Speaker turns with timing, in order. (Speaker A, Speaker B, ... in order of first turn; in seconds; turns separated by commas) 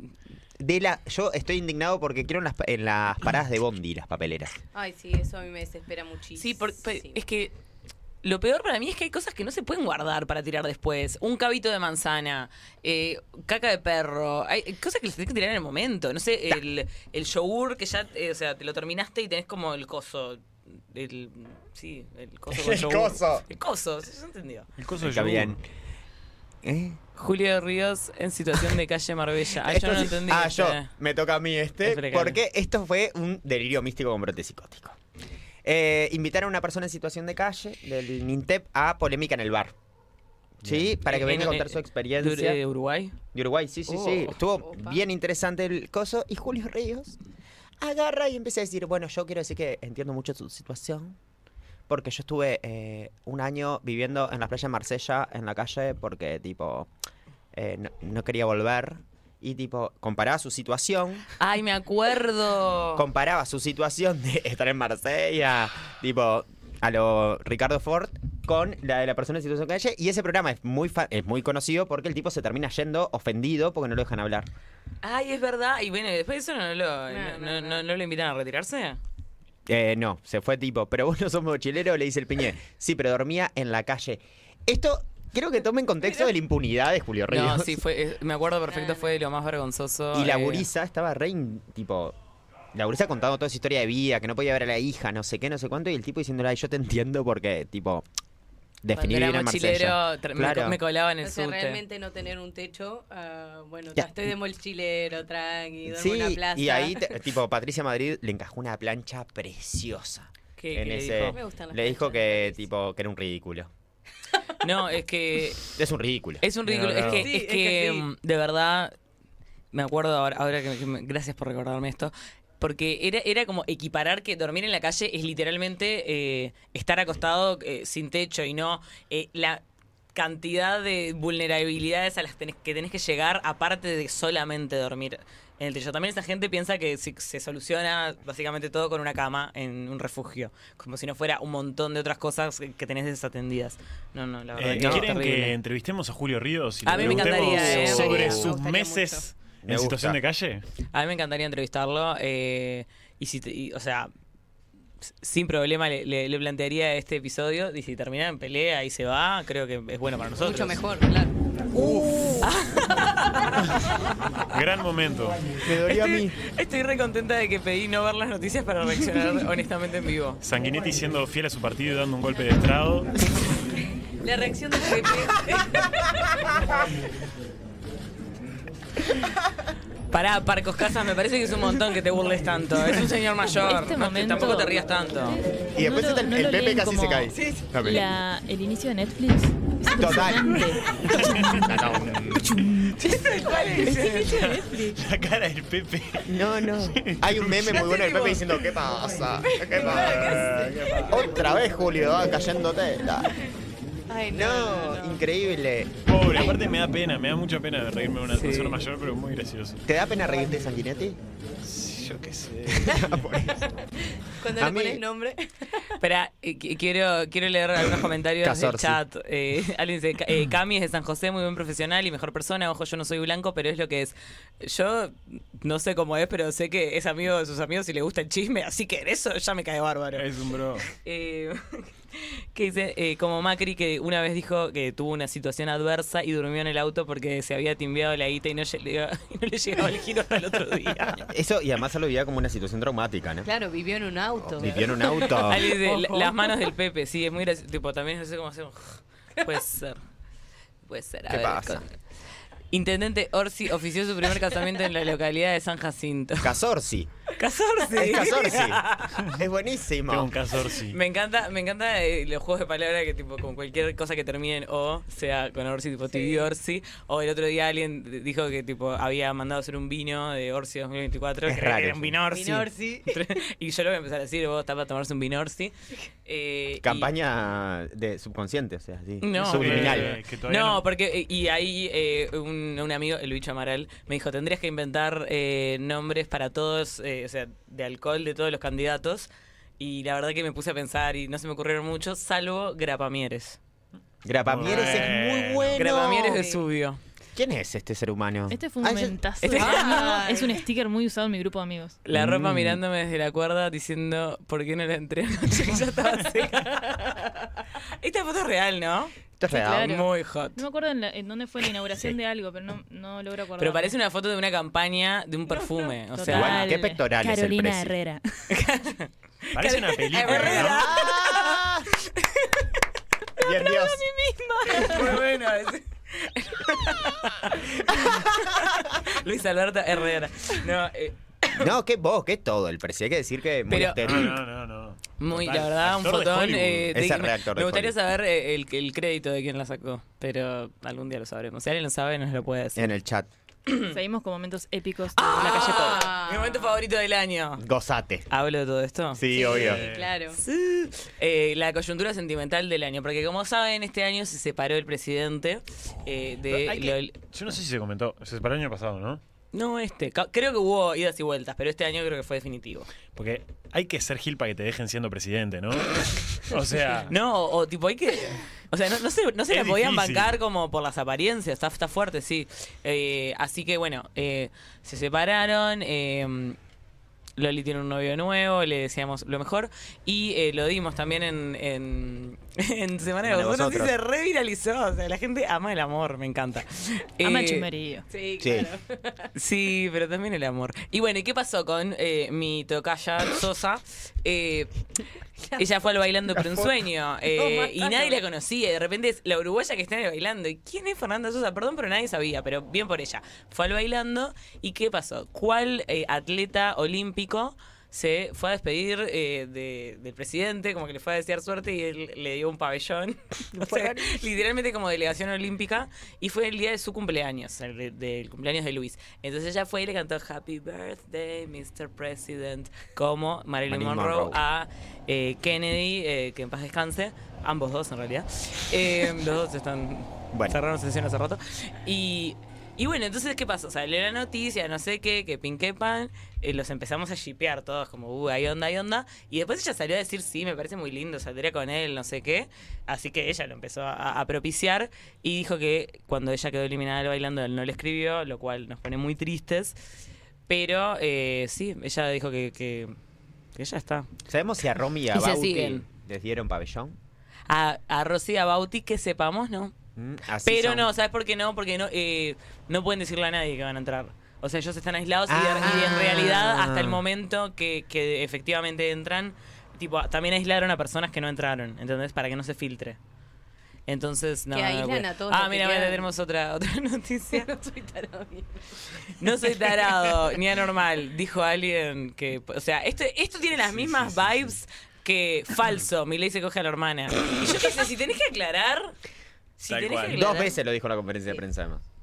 Speaker A: 0.6-4.6, Speaker B: 4.7-7.2, Speaker C: 6.4-7.5, Speaker C: 8.2-24.7, Speaker A: 22.5-23.4, Speaker D: 24.8-25.6, Speaker A: 25.0-25.6, Speaker A: 26.6-27.0, Speaker C: 27.2-30.9, Speaker A: 29.6-35.0, Speaker C: 31.8-32.4, Speaker A: 35.6-39.7, Speaker A: 40.6-42.6, Speaker D: 40.6-40.9, Speaker C: 41.1-43.2, Speaker A: 43.3-47.2, Speaker C: 43.9-44.4, Speaker B: 44.2-45.0, Speaker A: 47.8-51.2, Speaker A: 51.9-56.9, Speaker A: 57.5-61.2, Speaker C: 61.4-63.0, Speaker A: 63.0-74.5, Speaker C: 75.0-79.0, Speaker B: 77.1-77.8, Speaker A: 79.7-87.8, Speaker C: 87.3-90.7, Speaker B: 88.8-89.0, Speaker A: 90.1-92.2, Speaker A: 92.7-98.1, Speaker A: 98.8-100.8, Speaker C: 98.9-101.8, Speaker B: 101.2-107.0, Speaker A: 105.9-113.7, Speaker C: 110.6-111.4, Speaker B: 111.3-112.6, Speaker C: 114.6-115.7, Speaker A: 115.7-116.5, Speaker C: 116.4-118.9, Speaker D: 116.7-117.3, Speaker B: 117.0-118.1, Speaker C: 119.7-129.6, Speaker C: 130.1-145.6, Speaker D: 144.6-150.6, Speaker A: 144.7-145.3, Speaker C: 146.8-148.4, Speaker A: 147.0-148.6, Speaker B: 147.0-149.3, Speaker A: 149.6-150.2, Speaker C: 150.9-154.1, Speaker C: 155.2-160.8, Speaker B: 160.4-161.3, Speaker A: 161.7-162.4, Speaker C: 162.4-164.4, Speaker D: 164.5-165.4, Speaker A: 165.6-166.4, Speaker C: 165.8-170.4, Speaker D: 170.4-173.1, Speaker B: 174.2-176.5, Speaker C: 180.1-185.4, Speaker E: 183.6-184.8, Speaker A: 185.8-188.0, Speaker E: 185.8-191.8, Speaker B: 187.3-187.7, Speaker A: 190.0-190.6, Speaker D: 191.0-192.2, Speaker A: 191.6-192.5, Speaker E: 192.3-193.2, Speaker C: 193.0-194.5, Speaker E: 193.8-195.0, Speaker D: 194.0-198.4, Speaker A: 196.3-200.4, Speaker D: 199.7-201.2, Speaker C: 199.8-200.2, Speaker B: 200.2-200.6, Speaker A: 201.1-203.3, Speaker B: 204.1-205.2, Speaker A: 204.3-206.6, Speaker D: 206.1-209.8, Speaker C: 208.3-208.8, Speaker A: 209.9-211.2, Speaker D: 211.6-213.4, Speaker A: 212.7-213.6, Speaker B: 213.7-216.0, Speaker A: 214.5-215.0, Speaker C: 216.0-230.2, Speaker A: 218.4-219.0, Speaker D: 230.1-230.9, Speaker C: 230.8-241.3, Speaker A: 241.2-243.5, Speaker B: 243.4-246.7, Speaker A: 244.4-245.7, Speaker C: 245.4-250.0, Speaker C: 250.9-251.9, Speaker A: 251.3-251.8, Speaker C: 252.7-256.5, Speaker A: 256.4-257.1, Speaker C: 257.4-259.3, Speaker A: 257.9-260.3, Speaker D: 260.1-261.0, Speaker C: 260.9-275.7, Speaker B: 266.1-266.5, Speaker A: 271.5-272.2, Speaker B: 272.3-273.2, Speaker C: 276.2-277.1, Speaker A: 276.8-280.1, Speaker C: 279.2-293.6, Speaker D: 279.4-280.8, Speaker A: 294.2-296.5, Speaker D: 294.5-295.8, Speaker B: 294.6-295.1, Speaker C: 295.7-297.0, Speaker B: 296.3-296.6, Speaker A: 297.4-299.2, Speaker E: 298.5-302.0, Speaker C: 299.4-300.0, Speaker B: 299.5-300.6, Speaker C: 302.1-307.3, Speaker A: 302.1-302.8, Speaker C: 308.0-309.1, Speaker A: 309.4-310.0, Speaker E: 309.5-314.0, Speaker C: 309.8-310.6, Speaker C: 313.6-316.7, Speaker E: 316.1-318.6, Speaker A: 316.3-317.9, Speaker C: 318.5-322.8, Speaker D: 319.5-320.9, Speaker B: 320.2-320.9, Speaker A: 320.6-321.9, Speaker A: 323.4-324.1, Speaker E: 323.6-325.1, Speaker B: 324.6-324.9, Speaker C: 324.7-331.7, Speaker A: 331.5-334.4, Speaker C: 333.7-334.3, Speaker D: 334.0-336.9, Speaker C: 335.2-342.9, Speaker A: 336.9-337.9, Speaker A: 342.8-343.3, Speaker C: 343.7-343.9, Speaker E: 343.9-346.1, Speaker C: 345.1-347.6, Speaker B: 345.4-346.8, Speaker A: 347.6-348.3, Speaker C: 348.3-349.8, Speaker A: 349.1-349.8, Speaker B: 349.3-350.4, Speaker D: 349.4-350.1, Speaker C: 350.3-357.2, Speaker D: 356.5-359.2, Speaker C: 359.5-362.9, Speaker D: 363.1-367.1, Speaker C: 367.1-376.6, Speaker D: 369.5-370.4, Speaker C: 377.4-387.7, Speaker A: 383.2-383.9, Speaker E: 387.2-388.1, Speaker B: 388.1-389.3, Speaker A: 388.4-388.7, Speaker C: 389.4-394.7, Speaker C: 395.6-449.8, Speaker B: 397.3-398.2, Speaker A: 413.5-414.2, Speaker A: 423.7-424.4, Speaker A: 430.3-430.6, Speaker C: 450.5-452.9, Speaker C: 453.6-454.1, Speaker A: 454.3-457.0, Speaker C: 455.1-455.9, Speaker C: 457.5-459.7, Speaker A: 460.0-460.9, Speaker C: 460.4-473.0, Speaker A: 465.3-466.2, Speaker B: 465.6-466.6, Speaker D: 466.5-467.0, Speaker C: 473.9-477.5, Speaker B: 474.5-476.1, Speaker B: 477.3-480.2, Speaker C: 479.2-488.9, Speaker D: 483.6-484.6, Speaker C: 489.6-490.6, Speaker D: 489.7-490.5, Speaker A: 490.1-491.8